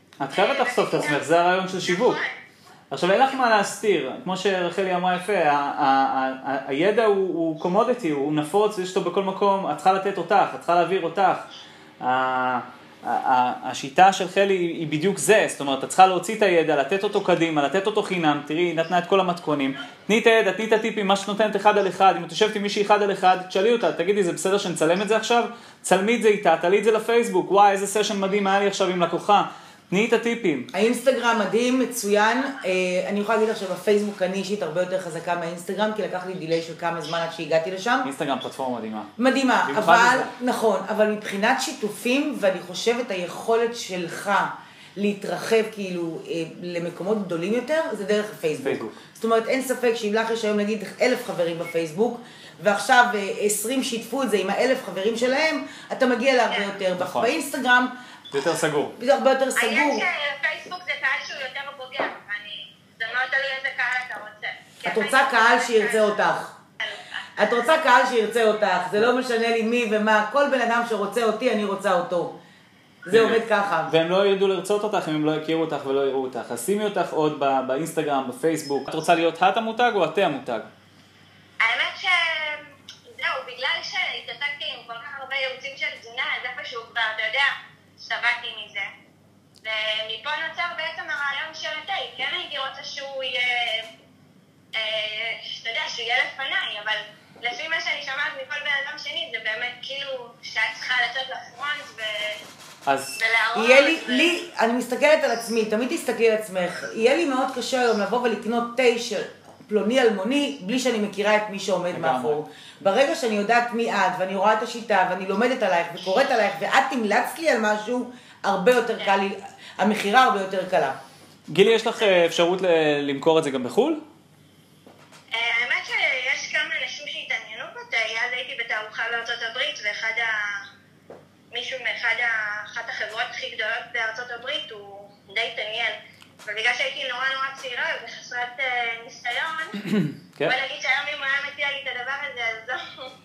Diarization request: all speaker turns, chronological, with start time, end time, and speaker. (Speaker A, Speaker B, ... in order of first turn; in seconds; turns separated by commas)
Speaker A: 0.2-2.2, Speaker B: 0.3-1.2, Speaker B: 1.8-2.4, Speaker A: 2.9-11.5, Speaker A: 12.0-30.7, Speaker C: 30.7-38.1, Speaker A: 38.0-39.1, Speaker C: 39.2-58.0, Speaker A: 39.6-40.3, Speaker A: 48.6-49.0, Speaker A: 57.0-57.3, Speaker A: 58.3-59.0, Speaker C: 59.0-60.1, Speaker B: 59.6-66.2, Speaker C: 64.8-66.5, Speaker B: 66.8-67.5, Speaker C: 67.4-72.4, Speaker C: 73.0-73.9, Speaker A: 73.1-80.7, Speaker B: 81.6-88.9, Speaker B: 89.6-93.9, Speaker B: 94.7-102.4, Speaker A: 102.9-103.2, Speaker B: 103.2-104.3, Speaker C: 103.6-121.0, Speaker A: 111.9-112.4, Speaker A: 121.5-124.0, Speaker B: 125.3-130.7, Speaker B: 131.5-139.8, Speaker A: 139.8-140.6, Speaker B: 140.4-143.1